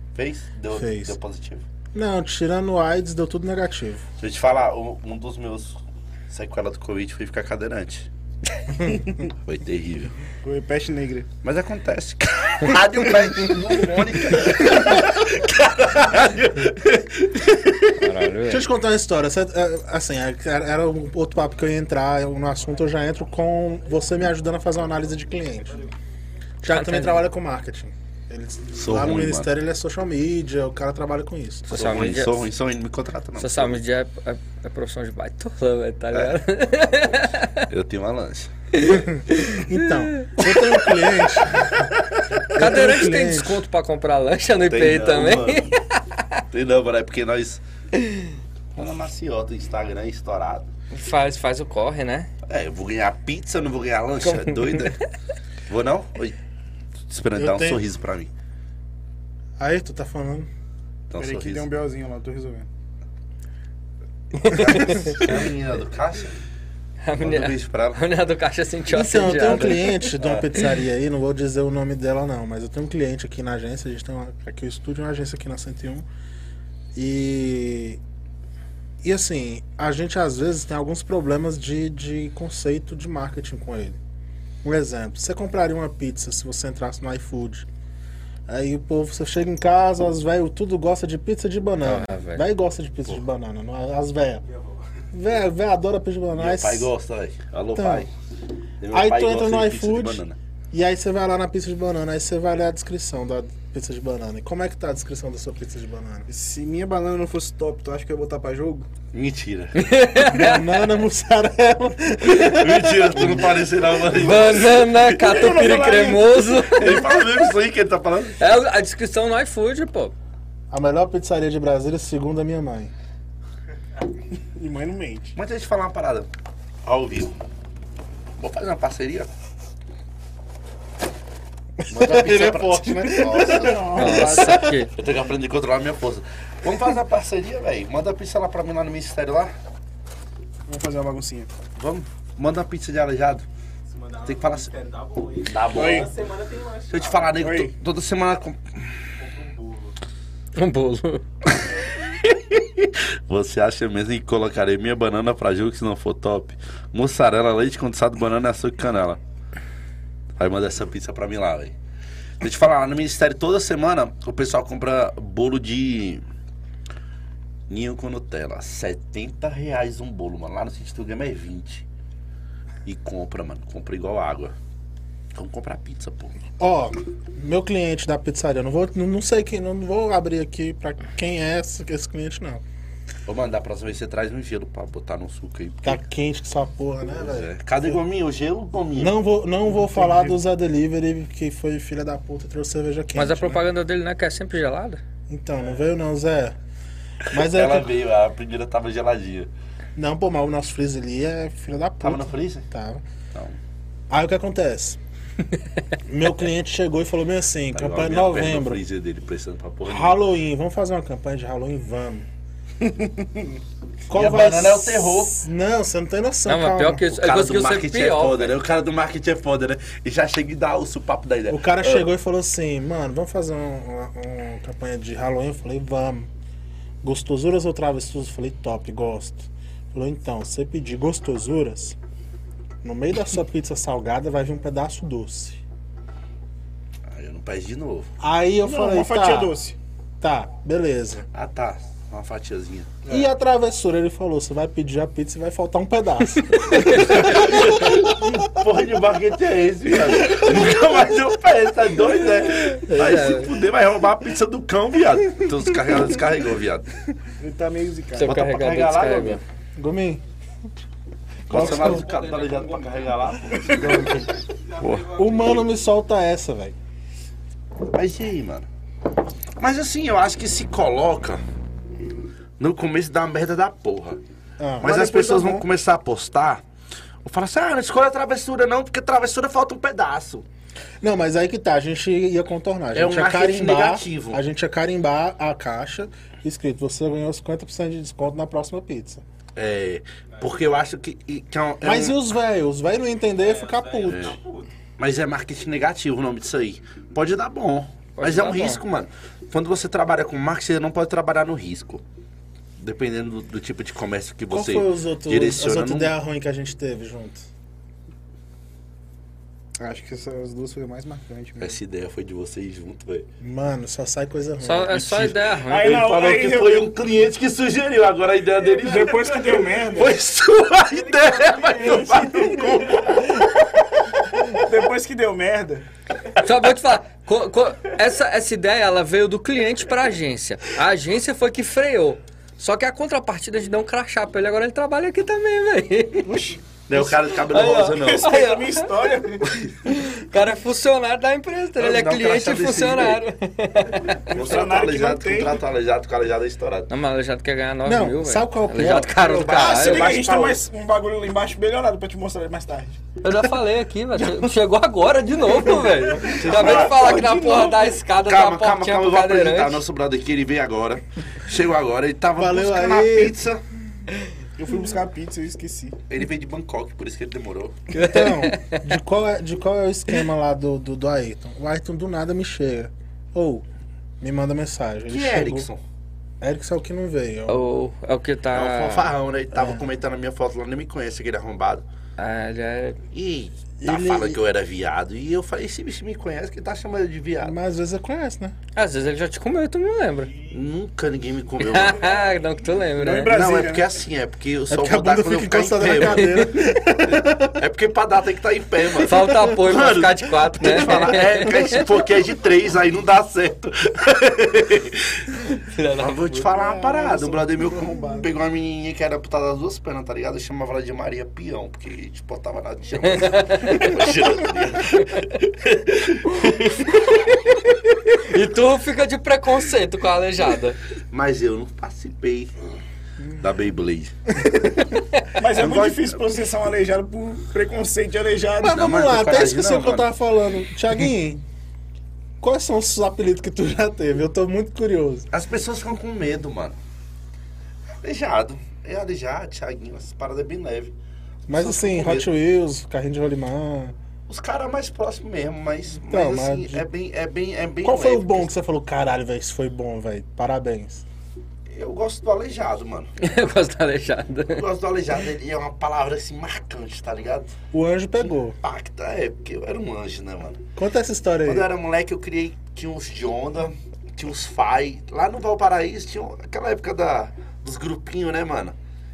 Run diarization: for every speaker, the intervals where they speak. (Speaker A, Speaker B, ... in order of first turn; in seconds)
Speaker A: 0.1-1.6, 4.2-5.8, 6.3-8.1, 9.4-10.2, 11.4-18.1, 28.8-29.5, 31.7-33.8, 37.7-38.5, 44.7-45.7, 46.5-47.6, 48.8-50.7, 52.4-55.0, 55.7-56.4, 57.1-58.3, 61.1-61.7, 65.0-66.4, 67.2-68.0, 96.3-98.1, 98.8-100.4, 109.1-109.8, 112.2-118.4, 125.4-126.3, 126.8-127.3, 128.4-129.3, 131.9-139.5, 141.8-143.5, 144.2-144.7, 145.4-146.1, 146.9-148.7, 152.8-159.2, 160.4-161.7, 162.4-166.2, 167.7-171.8, 172.8-174.5, 175.3-176.3, 183.3-186.0, 187.2-189.2, 197.4-199.5, 202.0-202.7, 207.7-210.2, 214.1-215.4, 217.1-222.1, 237.1-238.1, 241.3-242.9, 246.9-256.9, 258.2-259.4, 261.5-264.1, 264.8-265.1, 267.9-268.7, 269.6-271.4, 272.6-274.2, 274.8-276.6, 277.2-280.4, 282.9-284.4, 289.6-292.2, 294.1-294.4, 295.0-302.0, 302.8-306.1, 311.6-313.3, 315.1-323.3, 336.9-338.4, 341.8-343.2, 344.3-346.9, 348.8-350.6, 356.2-357.2, 358.2-363.6, 366.1-367.8, 375.1-375.8, 378.5-381.9, 383.1-387.6, 390.5-392.1, 393.2-396.5, 397.6-405.3, 406.0-417.1, 421.1-422.5, 423.4-424.1, 425.5-426.3, 428.6-430.1, 435.3-436.8, 438.0-440.9, 441.5-442.3, 444.3-448.5, 451.7-453.1, 454.5-457.5, 458.6-460.6, 461.4-468.8
Speaker B: 0.7-1.2, 1.9-4.0, 18.5-25.8, 26.6-31.7, 38.9-41.7, 42.5-43.6, 57.4-57.8, 59.6-60.5, 64.6-65.3, 68.9-76.1, 77.0-78.0, 79.0-84.0, 84.6-87.7, 88.5-94.5, 95.1-96.9, 97.8-98.1, 98.9-106.3, 110.2-113.5, 120.7-122.9, 131.8-134.6, 176.6-182.6, 185.8-188.0, 189.0-193.6, 195.3-196.6, 197.3-197.9, 200.0-203.0, 204.1-205.0, 206.1-208.8, 209.8-212.3, 214.1-217.1, 221.5-226.3, 227.0-232.0, 232.8-235.6, 238.2-239.6, 240.2-241.3, 243.1-248.3, 250.2-250.6, 259.8-260.2, 261.5-262.1, 265.1-266.8, 274.6-275.7, 281.0-289.2, 291.8-294.4, 304.5-307.4, 313.4-315.3, 347.9-349.3, 362.4-363.4, 368.0-373.6, 374.2-375.7, 376.4-377.6, 379.5-379.9, 383.8-384.4, 387.4-388.6, 394.7-397.6, 428.6-431.4, 432.4-435.3, 441.5-443.9, 446.1-446.9, 447.8-451.1, 457.7-458.6, 460.8-461.7
Speaker C: 10.4-11.3, 61.2-62.7, 106.3-108.9, 115.6-116.1, 124.5-125.4, 133.2-134.6, 140.7-141.5, 145.7-146.1, 147.4-147.7, 189.8-190.3, 212.8-213.6, 238.6-239.8, 257.4-258.3, 309.8-311.8, 315.7-316.9, 318.7-320.1, 321.8-322.8, 324.5-325.9, 336.2-337.2, 337.8-339.6, 344.3-345.6, 349.5-353.0, 354.1-354.5, 355.5-358.0, 364.6-366.0, 393.0-393.9, 406.5-408.3, 425.4-428.8
Speaker D: 17.9-18.7, 26.7-27.2, 31.7-32.5, 33.4-37.7, 38.7-40.6, 42.5-46.4, 48.0-48.3, 50.9-52.3, 54.2-55.0, 64.4-65.2, 67.0-70.1, 91.8-92.5, 109.8-110.7, 114.1-117.2, 118.4-120.2, 133.9-134.9, 150.6-151.2, 193.2-195.0, 216.5-218.6, 246.7-247.2, 252.6-253.5, 258.2-259.4, 263.8-264.3, 298.2-298.8, 314.6-316.0, 326.4-336.3, 337.3-339.1, 339.9-344.2, 346.9-350.2, 353.2-359.8, 367.9-368.9, 377.5-379.1, 382.2-383.0, 388.8-390.3, 391.6-393.4, 395.8-396.5, 399.1-401.9, 405.6-406.5, 413.1-414.0, 418.1-420.8, 453.2-454.6
Speaker E: 143.9-147.4, 149.2-150.0, 261.5-263.3, 264.7-265.6, 290.4-290.8, 293.4-294.7, 320.9-322.3